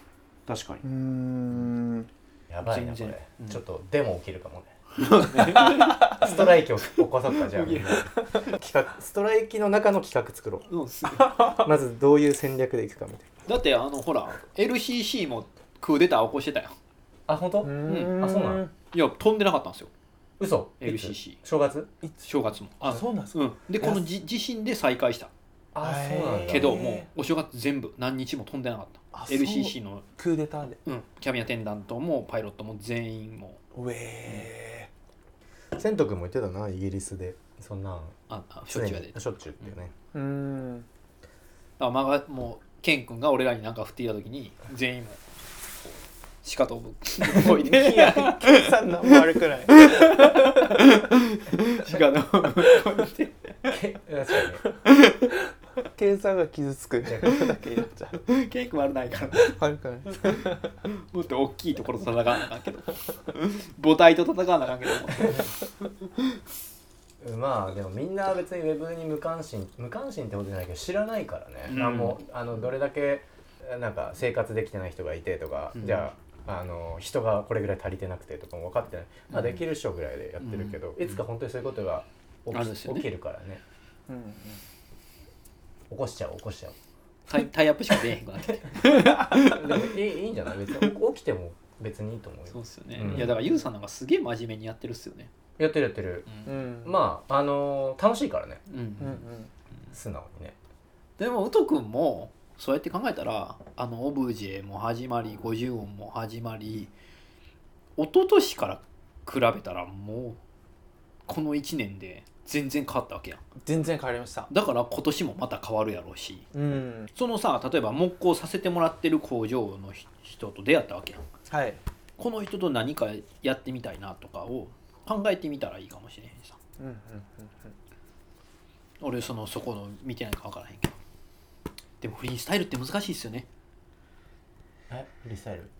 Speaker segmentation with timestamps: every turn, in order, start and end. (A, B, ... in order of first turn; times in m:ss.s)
0:00.5-0:00.8 A
0:00.8-0:02.1 B
0:02.5-0:04.7 A
0:02.6-0:03.6 C
0:05.0-0:08.5 C
0:05.5-0:10.7 A
0:10.7-0:11.6 C
0:11.2-0:13.3 A
0:13.5-0:16.8 C
0:17.3-0:18.7 A
0:17.6-0:18.7 B
0:17.9-0:18.2 C
0:18.9-0:19.9 C
0:20.4-0:21.9 A
0:20.8-0:21.4 C
0:22.2-0:25.3 C
0:22.8-0:24.0 B
0:25.7-0:26.9 A
0:25.8-0:27.1 B
0:26.5-0:30.0 C
0:29.1-0:30.8 B
0:30.8-0:33.6 C
0:33.7-0:34.9 B
0:35.8-0:38.2 A
0:38.3-0:39.7 C
0:38.7-0:39.9 A
0:40.1-0:40.9 B
0:41.8-0:45.2 C
0:46.4-0:48.7 C
0:47.2-0:50.5 B
0:49.7-0:53.8 C
0:53.7-0:54.6 A
0:55.9-0:58.2 B
0:58.3-0:59.6 C
0:59.3-1:00.7 B
1:00.1-1:00.4 C
1:01.1-1:05.5 C
1:07.2-1:23.6 A
1:11.7-1:12.2 C
1:15.8-1:16.1 C
1:19.3-1:19.6 C
1:20.4-1:21.2 C
1:22.5-1:23.1 C
1:24.1-1:24.6 B
1:25.9-1:26.8 A
1:27.3-1:29.9 C
1:28.8-1:33.4 A
1:32.5-1:35.3 C
1:35.6-1:38.6 A
1:36.5-1:37.0 B
1:38.7-1:39.3 C
1:39.0-1:39.5 B
1:39.9-1:40.6 A
1:41.2-1:46.9 C
1:48.0-1:50.4 C
1:51.3-1:53.4 C
1:53.6-1:54.5 B
1:54.5-1:56.5 C
1:56.5-1:57.1 B
1:57.2-2:01.2 C
2:01.5-2:01.8 B
2:02.2-2:06.6 C
2:06.8-2:07.8 B
2:09.0-2:11.0 C
2:12.0-2:13.5 C
2:14.9-2:15.7 A